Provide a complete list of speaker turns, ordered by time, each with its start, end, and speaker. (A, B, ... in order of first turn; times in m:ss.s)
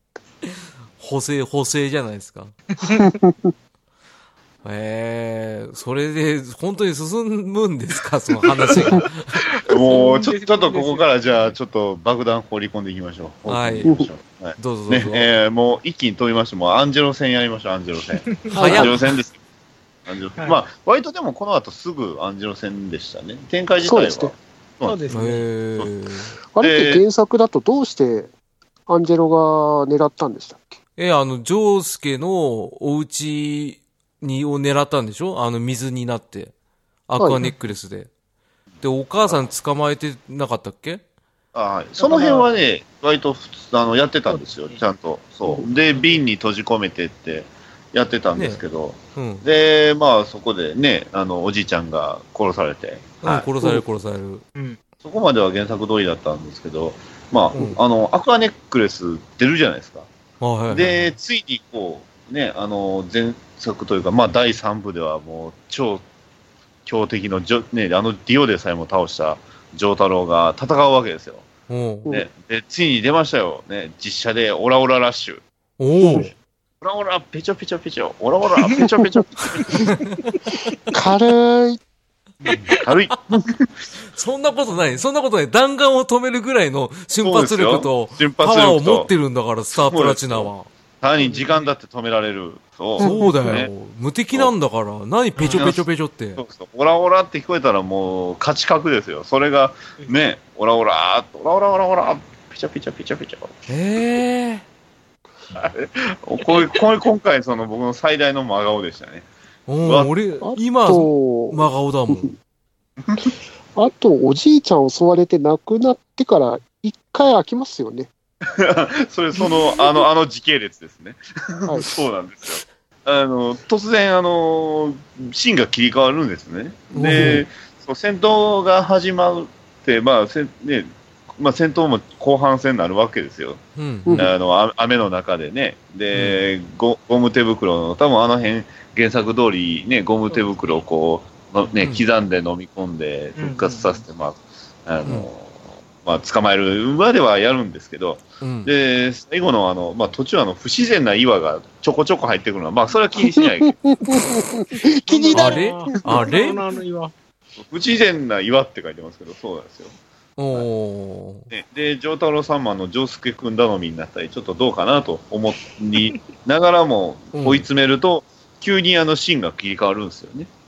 0:01.0-0:02.5 A
0:02.8-0:03.2 B
0:04.6-0:09.4 A
0:09.6-0:11.5 B
0:09.7-0:19.4 C
0:13.5-0:13.9 A
0:14.6-0:15.3 A
0:18.4-0:18.8 B
0:18.5-0:18.9 D
0:18.5-0:18.9 A
0:20.0-0:25.0 C
0:23.8-0:24.3 D
0:24.8-0:25.4 B
0:25.1-0:26.3 A
0:26.5-0:28.3 D
0:26.6-0:27.0 C
0:28.9-0:30.8 D
0:31.0-0:36.5 A
0:37.1-0:38.1 A
0:37.2-0:37.4 D
0:38.8-0:41.0 A
0:41.5-0:53.5 C
0:42.0-0:42.5 B
0:44.3-0:44.8 B
0:49.2-0:49.4 A
0:53.2-0:54.4 A
0:55.0-1:00.1 C
1:00.4-1:01.0 A
1:00.7-1:06.0 C
1:06.8-1:11.5 C
1:11.7-1:12.1 A
1:12.1-1:15.4 C
1:15.8-1:16.3 A
1:16.0-1:16.3 D
1:16.8-1:20.0 C
1:20.9-1:21.8 D
1:22.4-1:23.7 C
1:24.1-1:30.7 A
1:27.2-1:29.1 C
1:29.7-1:30.5 C
1:31.0-1:33.7 C
1:31.2-1:31.7 B
1:33.0-1:33.6 D
1:33.0-1:36.4 A
1:35.4-1:35.7 B
1:35.5-1:35.8 C
1:36.4-1:43.5 C
1:43.7-1:44.6 A
1:45.5-1:49.3 C
1:49.7-1:52.3 A
1:49.8-1:50.1 C
1:50.4-1:52.3 D
1:53.0-1:53.3 C
1:53.8-1:58.1 D
1:58.4-2:13.6 C
2:01.7-2:01.9 D
2:06.9-2:07.4 A
2:13.8-2:14.2 A
2:14.0-2:14.3 D
2:14.1-2:34.0 C
2:16.1-2:16.4 A
2:20.3-2:20.8 B
2:21.8-2:22.0 A
2:23.4-2:24.0 B
2:28.4-2:28.7 A
2:34.0-2:36.2 D
2:35.1-2:37.1 B
2:35.1-2:36.6 A
2:37.6-2:40.0 C
2:40.4-2:41.5 A
2:41.5-2:50.5 C
2:47.3-2:47.7 A